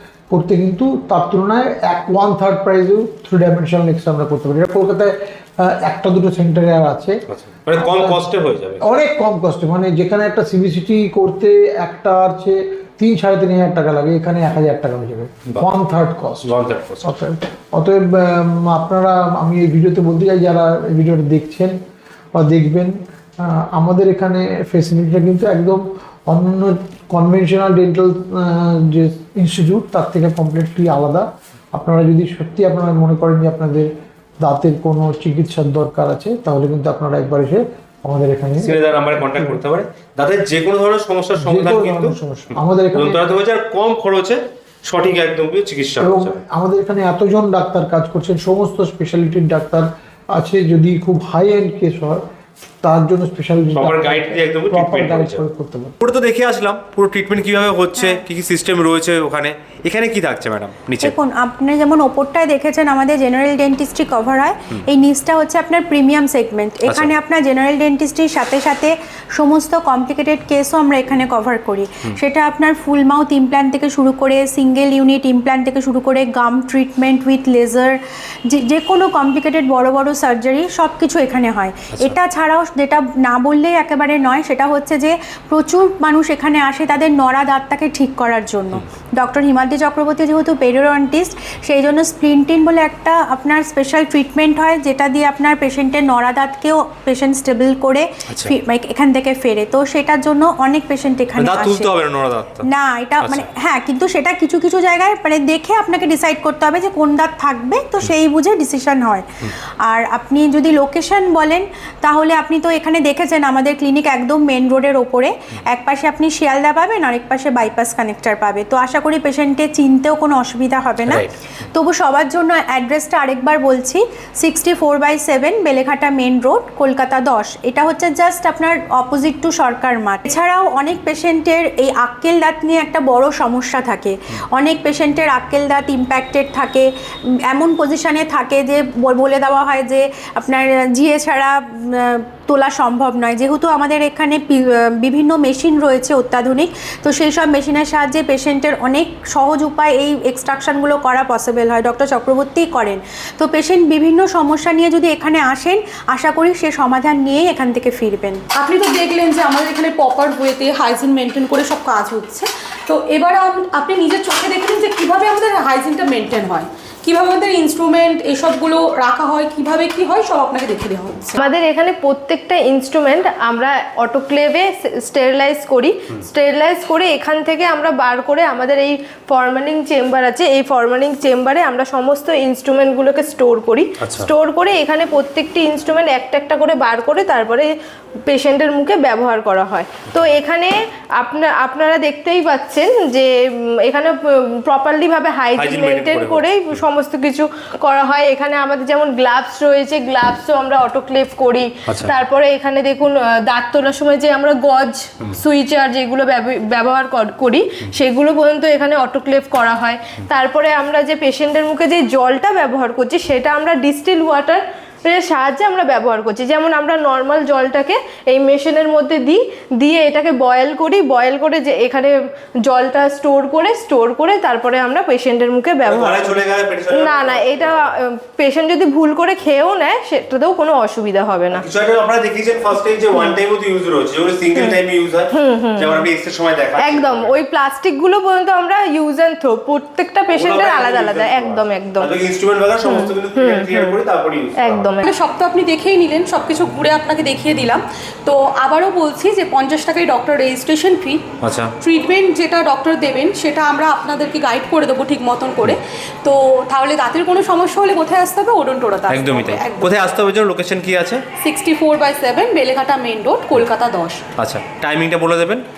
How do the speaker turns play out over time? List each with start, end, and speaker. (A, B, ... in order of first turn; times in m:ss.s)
0:00.3-0:07.2 A
0:07.3-0:08.8 B
0:07.7-0:08.3 A
0:08.8-0:21.8 A
0:16.4-0:17.1 B
0:22.3-0:33.9 A
0:34.4-0:39.6 A
0:38.6-0:42.2 B
0:41.4-0:43.4 A
0:42.9-0:46.4 B
0:46.0-0:52.2 A
0:52.8-0:55.9 A
0:53.7-0:55.4 B
0:56.0-1:01.1 B
0:58.0-0:58.2 C
1:01.0-1:42.0 C
1:06.9-1:07.1 B
1:41.4-1:42.7 B
1:42.6-1:49.3 C
1:43.2-1:43.4 B
1:49.8-2:16.9 C
2:17.4-2:38.4 C
2:38.5-2:51.4 D
2:51.4-3:07.7 E
3:04.0-3:04.3 B
3:08.3-3:13.3 E
3:13.9-3:42.1 E
3:15.5-3:16.8 B
3:21.9-3:22.1 B
3:42.6-3:51.6 E
3:45.8-3:47.9 B
3:51.5-3:57.4 B
3:54.5-3:56.1 E
3:56.8-4:02.2 E
4:00.3-4:05.0 B
4:02.8-4:05.0 E
4:05.0-4:11.2 D
4:11.4-4:11.7 B
4:11.8-4:20.1 D
4:19.1-4:21.2 B
4:21.4-4:24.2 D
4:24.4-4:25.6 B